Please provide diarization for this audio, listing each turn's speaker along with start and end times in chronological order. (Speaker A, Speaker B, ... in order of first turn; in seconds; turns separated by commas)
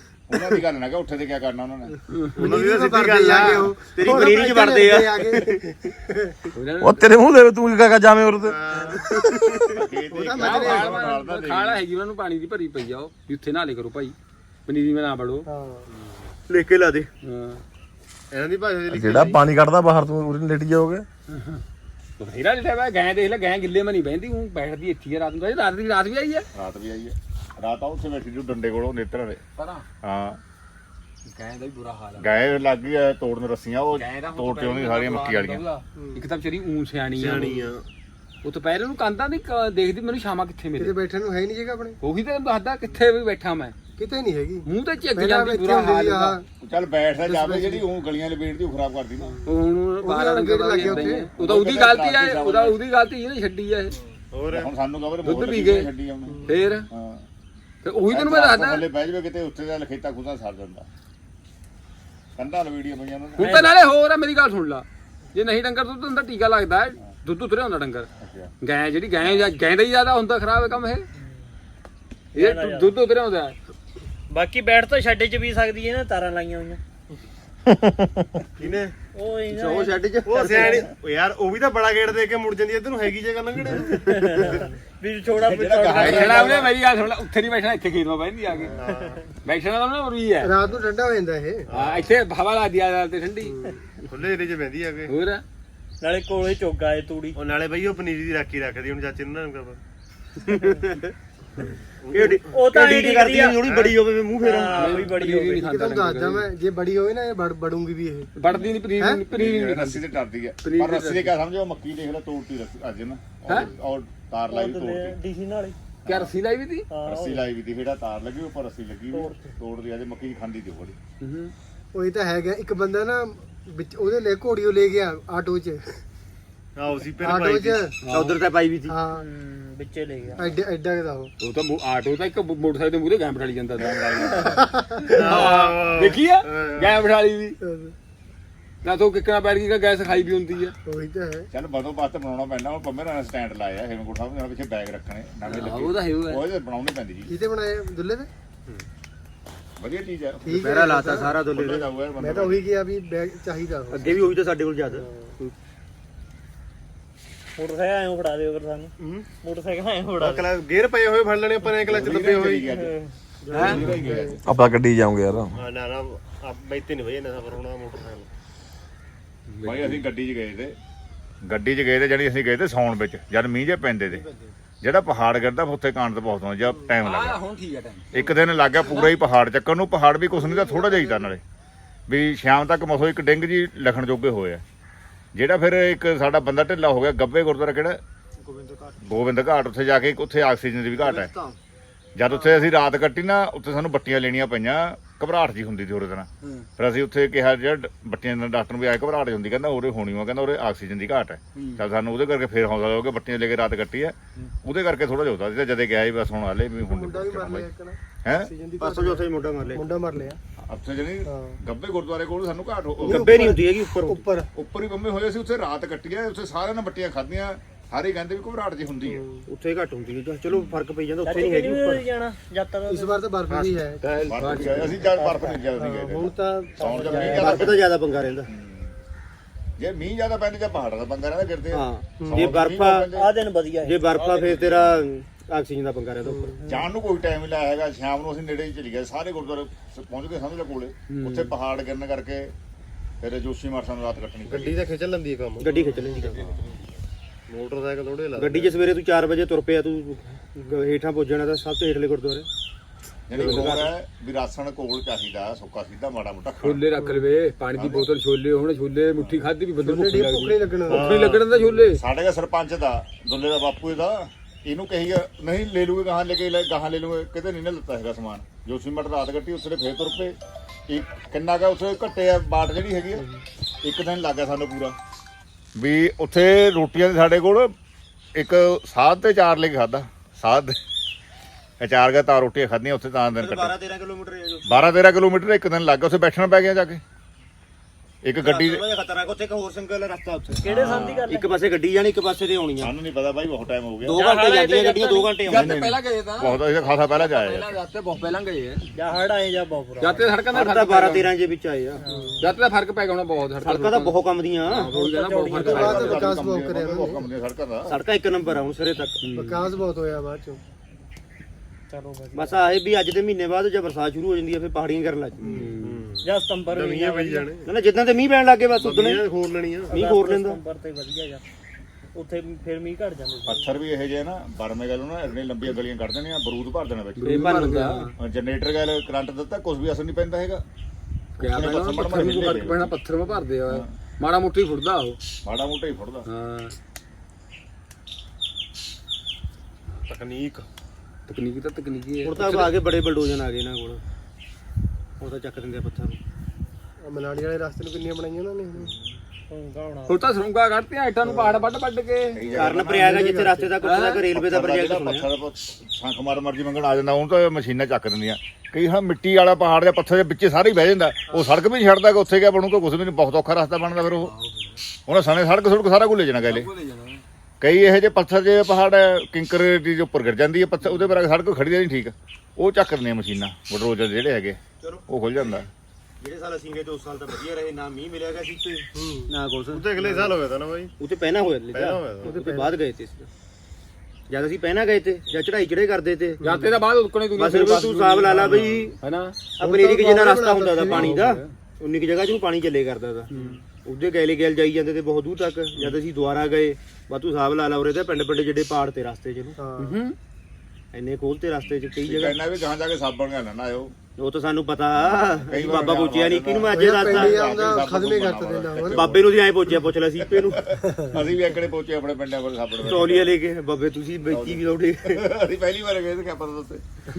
Speaker A: 0.3-2.0, Speaker B: 2.1-2.5, Speaker C: 2.4-6.1, Speaker D: 2.4-4.0, Speaker E: 3.9-5.6, Speaker B: 6.6-7.1, Speaker F: 6.8-8.6, Speaker D: 8.4-9.1, Speaker E: 9.0-9.8, Speaker A: 9.7-11.8, Speaker C: 10.1-11.0, Speaker B: 10.3-14.2, Speaker B: 14.7-15.4, Speaker C: 15.5-15.9, Speaker D: 15.9-16.3, Speaker E: 16.5-17.1, Speaker B: 17.2-17.6, Speaker D: 18.3-19.4, Speaker F: 18.9-21.1, Speaker B: 21.3-21.6, Speaker B: 22.2-26.5, Speaker A: 26.5-29.4, Speaker B: 29.6-29.9, Speaker A: 30.0-30.4, Speaker B: 31.3-32.3, Speaker A: 32.2-35.6, Speaker B: 33.9-37.6, Speaker C: 36.0-36.3, Speaker D: 37.1-37.9, Speaker C: 37.4-37.7, Speaker B: 38.4-41.0, Speaker C: 40.8-42.0, Speaker B: 42.0-43.7, Speaker C: 44.0-46.5, Speaker B: 44.7-46.4, Speaker A: 46.6-49.4, Speaker C: 47.2-47.9, Speaker B: 49.5-54.0, Speaker C: 50.0-51.3, Speaker A: 50.8-52.8, Speaker D: 53.9-54.7, Speaker A: 54.5-57.2, Speaker B: 55.2-55.9, Speaker C: 56.3-56.6, Speaker B: 56.5-56.9, Speaker B: 57.8-58.9, Speaker A: 58.1-60.9, Speaker A: 62.4-63.7, Speaker B: 63.4-68.1, Speaker A: 68.2-68.5, Speaker B: 68.6-71.1, Speaker A: 69.2-69.5, Speaker G: 71.2-71.4, Speaker B: 72.3-73.5, Speaker G: 72.4-72.9, Speaker G: 74.3-76.8, Speaker D: 78.6-79.0, Speaker G: 79.1-80.8, Speaker E: 79.5-80.8, Speaker D: 80.3-84.7, Speaker G: 84.0-86.7, Speaker A: 85.5-86.7, Speaker B: 85.9-88.7, Speaker D: 88.6-89.2, Speaker G: 88.9-89.1, Speaker B: 89.5-90.5, Speaker C: 90.4-91.7, Speaker D: 91.7-92.1, Speaker B: 91.7-93.5, Speaker C: 93.5-93.8, Speaker D: 94.1-95.1, Speaker B: 95.1-95.4, Speaker G: 96.0-97.4, Speaker D: 97.4-99.8, Speaker E: 100.5-101.1, Speaker D: 101.7-102.4, Speaker E: 102.1-105.0, Speaker G: 102.5-103.6, Speaker D: 103.6-104.0, Speaker G: 104.4-105.7, Speaker B: 104.7-106.5, Speaker C: 105.6-108.3, Speaker B: 108.4-110.1, Speaker C: 109.0-109.2, Speaker A: 109.3-115.2, Speaker B: 110.6-111.3, Speaker G: 114.5-115.8, Speaker A: 116.0-116.3, Speaker B: 116.1-116.9, Speaker G: 116.9-117.5, Speaker A: 117.1-121.0, Speaker G: 119.1-119.5, Speaker B: 121.2-121.5, Speaker C: 121.9-126.0, Speaker D: 126.8-127.9, Speaker C: 127.2-128.0, Speaker B: 128.1-128.4, Speaker E: 128.1-128.9, Speaker C: 128.9-129.2, Speaker G: 129.1-130.4, Speaker C: 130.4-131.3, Speaker B: 131.4-134.5, Speaker A: 133.8-134.7, Speaker C: 134.6-135.0, Speaker B: 135.1-137.6, Speaker D: 135.1-137.0, Speaker C: 137.6-137.9, Speaker B: 138.8-140.7, Speaker C: 140.9-141.5, Speaker A: 141.5-147.3, Speaker B: 145.4-146.4, Speaker C: 147.3-148.3, Speaker A: 149.8-150.5, Speaker C: 150.5-151.3, Speaker E: 150.5-151.9, Speaker A: 151.3-152.6, Speaker C: 152.2-154.2, Speaker E: 153.9-155.5, Speaker G: 157.6-160.4, Speaker D: 159.0-159.3, Speaker D: 160.2-162.7, Speaker A: 161.8-162.9, Speaker G: 162.7-163.1, Speaker E: 163.5-163.8, Speaker B: 163.5-163.8, Speaker D: 163.6-164.2, Speaker A: 163.6-164.4, Speaker C: 163.8-164.4, Speaker F: 164.4-165.6, Speaker D: 165.5-168.3, Speaker B: 169.5-170.0, Speaker A: 169.6-170.8, Speaker A: 171.4-174.2, Speaker E: 174.1-174.6, Speaker A: 174.8-177.4, Speaker B: 177.0-178.1, Speaker A: 178.1-181.4, Speaker B: 178.8-179.1, Speaker C: 180.3-181.3, Speaker A: 182.1-184.6, Speaker A: 185.3-188.0, Speaker E: 188.4-189.0, Speaker A: 189.0-191.3, Speaker E: 190.9-191.6, Speaker A: 192.2-207.7, Speaker B: 196.4-196.7, Speaker B: 201.6-201.8, Speaker C: 206.8-210.4, Speaker A: 208.2-208.5, Speaker E: 208.8-209.8, Speaker A: 210.7-213.4, Speaker C: 211.2-211.6, Speaker E: 213.0-214.2, Speaker C: 213.1-214.5, Speaker A: 214.6-219.2, Speaker C: 219.1-219.4, Speaker E: 219.5-222.0, Speaker A: 220.5-220.8, Speaker G: 221.2-223.2, Speaker C: 222.9-224.0, Speaker D: 223.5-223.8, Speaker B: 224.0-225.0, Speaker A: 224.3-227.9, Speaker C: 224.6-224.9, Speaker E: 225.2-225.5, Speaker C: 225.7-227.6, Speaker G: 227.0-227.8, Speaker E: 227.2-228.5, Speaker A: 228.5-228.9, Speaker A: 229.8-233.3, Speaker E: 231.7-233.1, Speaker C: 232.2-232.6, Speaker G: 233.1-234.6, Speaker E: 233.8-236.5, Speaker A: 234.5-235.0, Speaker C: 236.2-236.6, Speaker A: 236.7-242.5, Speaker B: 241.1-241.5, Speaker A: 243.2-244.8, Speaker D: 244.5-246.5, Speaker E: 245.6-246.5, Speaker D: 247.5-248.8, Speaker E: 248.4-252.5, Speaker A: 253.3-256.8, Speaker D: 253.4-253.8, Speaker E: 253.4-253.9, Speaker B: 256.6-262.0, Speaker C: 256.9-257.3, Speaker A: 257.8-258.1, Speaker A: 259.2-259.5, Speaker C: 259.8-261.1, Speaker D: 260.9-261.5, Speaker A: 261.9-270.4, Speaker A: 270.9-273.2, Speaker A: 273.8-275.0, Speaker A: 275.8-277.7, Speaker A: 278.4-280.8, Speaker A: 281.8-283.7, Speaker E: 283.4-285.0, Speaker A: 284.7-287.0, Speaker A: 288.2-288.9, Speaker E: 288.4-290.6, Speaker G: 290.6-291.7, Speaker A: 290.6-291.3, Speaker E: 291.3-292.9, Speaker A: 292.8-294.2, Speaker E: 294.1-295.7, Speaker G: 294.1-295.3, Speaker B: 295.4-298.8, Speaker A: 295.5-297.7, Speaker G: 298.9-300.3, Speaker B: 300.0-301.3, Speaker E: 300.5-302.0, Speaker G: 302.1-302.4, Speaker C: 302.1-302.5, Speaker B: 302.4-306.1, Speaker E: 303.6-304.9, Speaker G: 304.9-306.2, Speaker C: 305.6-307.3, Speaker A: 305.7-307.9, Speaker E: 307.9-309.3, Speaker B: 309.2-309.7, Speaker C: 309.3-310.6, Speaker G: 311.9-312.5, Speaker E: 312.3-315.6, Speaker B: 315.5-316.0, Speaker D: 315.8-317.7, Speaker G: 316.2-317.5, Speaker E: 317.7-319.2, Speaker D: 318.7-320.0, Speaker E: 319.9-320.6, Speaker G: 319.9-321.4, Speaker G: 322.1-323.7, Speaker A: 323.5-327.7, Speaker B: 327.2-328.1, Speaker E: 327.2-328.1, Speaker A: 328.2-330.6, Speaker A: 331.4-332.9, Speaker B: 331.4-335.2, Speaker E: 331.9-332.7, Speaker A: 335.4-336.3, Speaker B: 336.3-336.8, Speaker D: 340.1-340.7, Speaker B: 341.3-342.7, Speaker E: 342.2-344.0, Speaker E: 345.2-346.2, Speaker C: 347.0-348.9, Speaker G: 349.5-350.3, Speaker B: 350.1-352.4, Speaker C: 351.2-351.7, Speaker A: 352.4-353.1, Speaker E: 352.5-355.3, Speaker C: 353.0-353.8, Speaker B: 353.8-354.3, Speaker A: 354.3-364.3, Speaker B: 364.2-364.8, Speaker A: 365.1-366.7, Speaker B: 366.5-367.2, Speaker A: 367.6-375.7, Speaker E: 374.8-375.6, Speaker E: 376.2-380.3, Speaker C: 379.0-379.3, Speaker D: 379.7-380.9, Speaker E: 381.0-383.3, Speaker D: 381.7-382.4, Speaker C: 382.2-382.8, Speaker E: 384.3-386.4, Speaker C: 386.4-386.7, Speaker B: 386.4-389.4, Speaker E: 387.3-388.9, Speaker C: 388.2-388.6, Speaker E: 389.6-399.6, Speaker C: 389.6-391.2, Speaker B: 390.9-391.5, Speaker B: 393.3-393.6, Speaker C: 399.6-400.0, Speaker B: 399.8-400.1, Speaker E: 400.9-402.4, Speaker A: 401.6-403.9, Speaker E: 404.2-407.5, Speaker A: 405.0-413.3, Speaker C: 406.7-409.1, Speaker E: 408.8-410.6, Speaker E: 412.8-415.2, Speaker A: 414.3-416.8